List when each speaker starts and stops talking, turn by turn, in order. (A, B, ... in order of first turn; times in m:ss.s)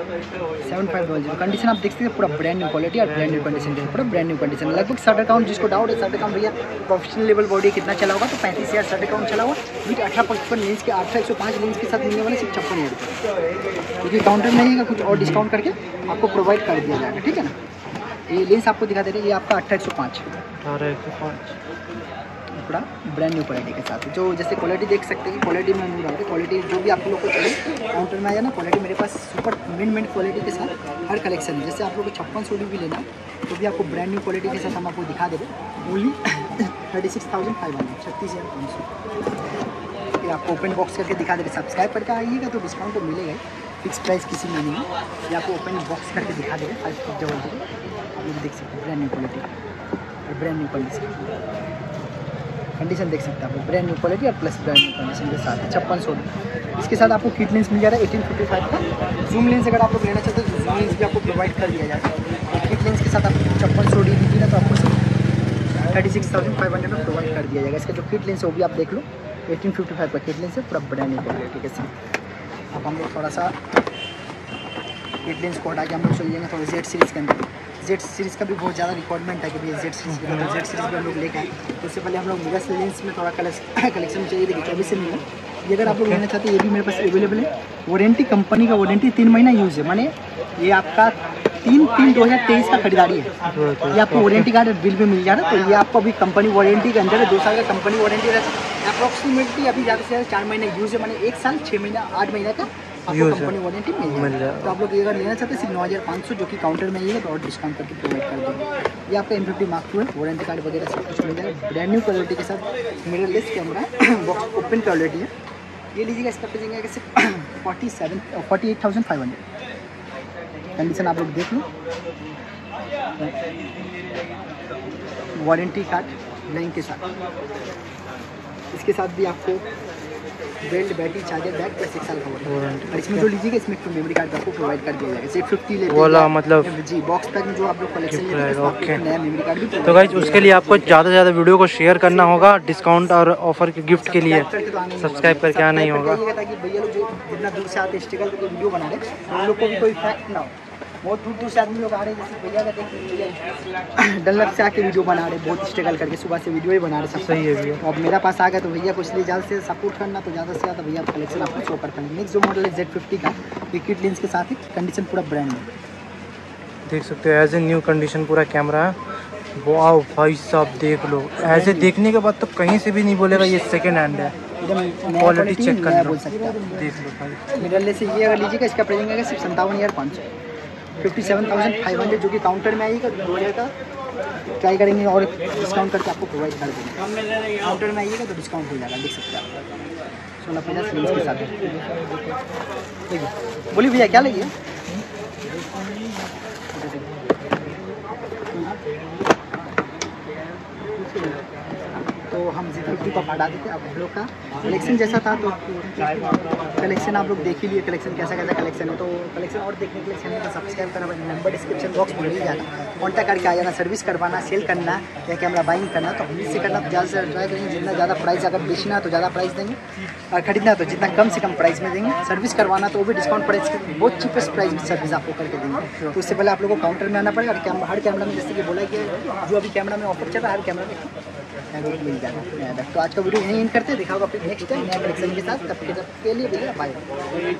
0:00.6-0:13.2 A
0:03.2-0:04.0 B
0:14.0-0:17.5 A
0:15.1-0:15.4 B
0:18.3-0:20.3 A
0:20.6-0:21.6 B
0:22.5-0:38.9 A
0:40.2-0:47.6 A
0:48.2-0:49.5 A
0:50.3-0:51.4 A
0:52.8-1:05.0 A
1:05.9-1:11.9 A
1:12.7-1:13.5 A
1:15.2-1:33.3 A
1:20.1-1:20.5 B
1:25.8-1:26.2 B
1:33.4-1:34.5 B
1:33.9-1:55.3 A
1:43.1-1:44.8 B
1:55.9-1:59.4 A
2:00.8-2:01.7 A
2:05.4-2:07.0 A
2:08.7-2:09.6 A
2:10.6-2:21.0 A
2:12.4-2:13.3 B
2:15.9-2:16.7 B
2:18.1-2:19.0 B
2:19.8-2:26.2 B
2:23.9-2:45.6 A
2:37.2-2:37.8 B
2:46.8-2:49.0 B
2:49.6-2:54.3 B
2:51.4-2:51.9 A
2:54.6-2:56.6 A
2:55.1-2:57.4 B
2:57.5-3:00.3 A
3:01.0-3:03.7 A
3:04.6-3:07.0 A
3:07.6-3:09.5 A
3:10.4-3:11.7 A
3:13.1-3:14.5 A
3:16.7-3:17.1 A
3:18.5-3:18.8 A
3:22.3-3:39.8 A
3:40.3-3:51.1 A
3:45.9-3:46.3 B
3:51.7-3:57.0 A